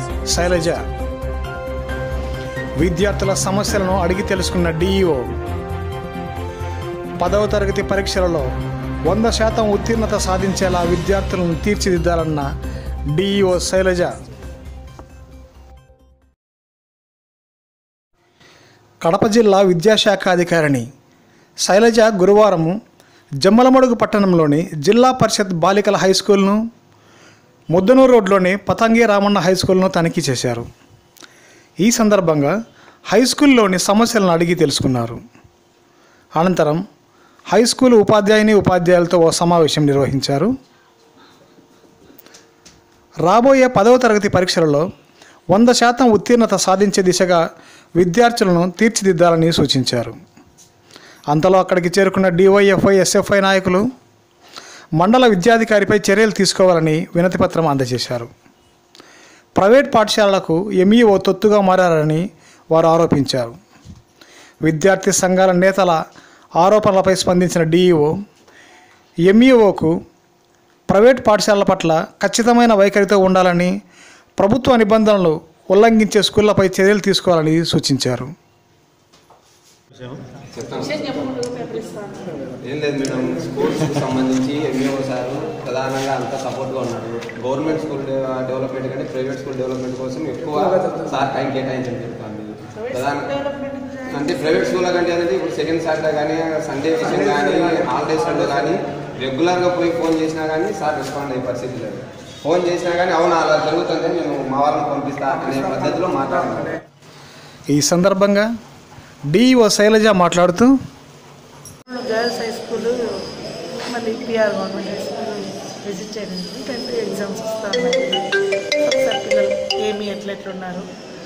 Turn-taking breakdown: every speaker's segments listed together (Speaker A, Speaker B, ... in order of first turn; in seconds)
Speaker A: 0.3-0.8, 2.8-5.3, 7.2-8.5, 9.1-12.5, 13.1-14.2, 19.0-20.9, 21.7-22.8, 23.4-26.6, 27.7-30.7, 31.8-32.5, 33.1-35.2, 36.4-36.8, 37.5-40.5, 43.3-44.9, 45.5-47.4, 48.0-50.2, 51.3-53.9, 55.0-58.3, 59.5-63.6, 64.7-66.0, 66.6-68.2, 69.3-70.0, 70.9-73.7, 74.4-78.3, 107.7-108.5, 109.3-110.7
Speaker B: 80.5-81.3, 82.6-93.4, 94.1-106.8
Speaker C: 81.5-82.0, 93.3-94.1, 111.9-113.0, 113.8-118.3, 118.8-120.9